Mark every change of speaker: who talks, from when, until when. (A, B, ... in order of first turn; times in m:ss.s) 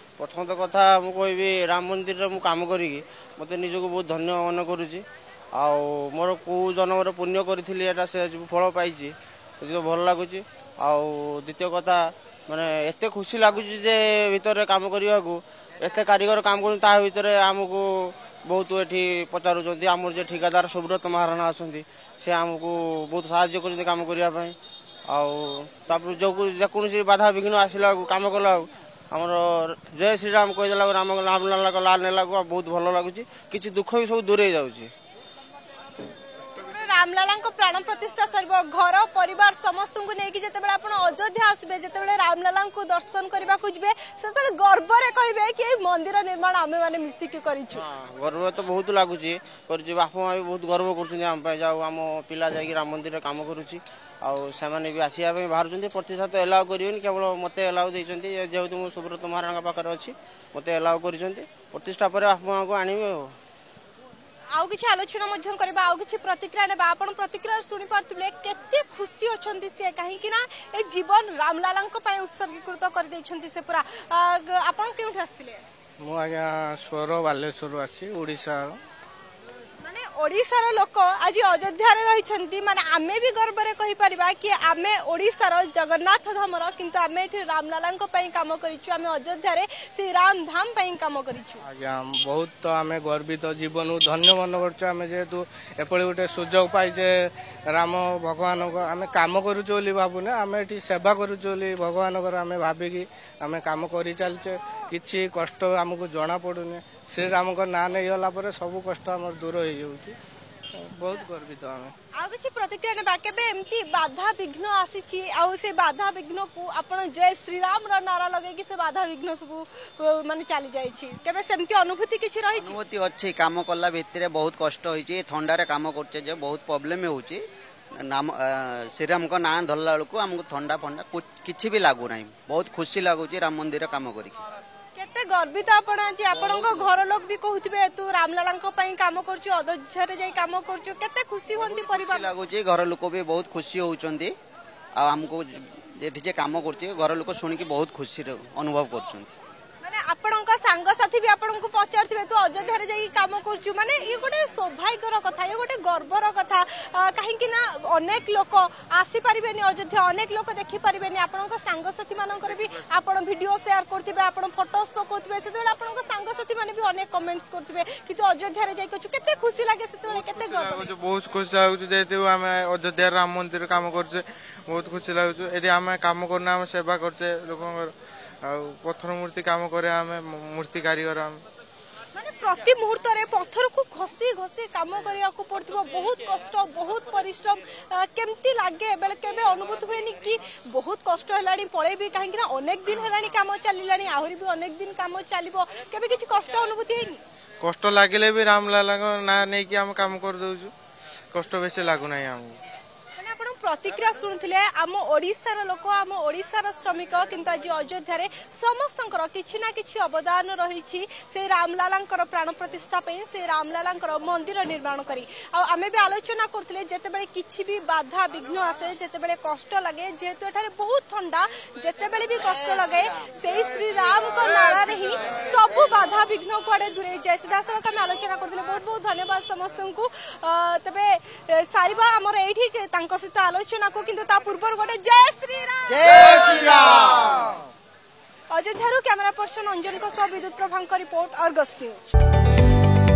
0:00.2-0:24.6 A
0:25.1-0:34.9 A
0:36.6-0:47.8 B
0:47.7-1:03.3 A
1:04.5-1:15.6 B
1:16.0-1:18.8 C
1:19.8-1:31.6 B
1:31.7-1:37.1 C
1:37.7-1:50.1 C
1:50.8-1:51.9 C
1:52.2-2:02.8 B
2:02.6-2:07.4 D
2:08.1-2:14.4 D
2:15.0-2:22.3 B
2:21.5-2:24.3 D
2:25.0-2:29.3 D
2:29.8-2:50.9 B
2:50.1-2:57.9 E
2:58.5-3:01.4 E
3:02.1-3:17.2 B
3:17.6-3:20.7 E
3:21.3-3:22.6 E
3:23.2-3:56.4 B
3:55.9-3:57.5 D
3:58.5-4:02.0 B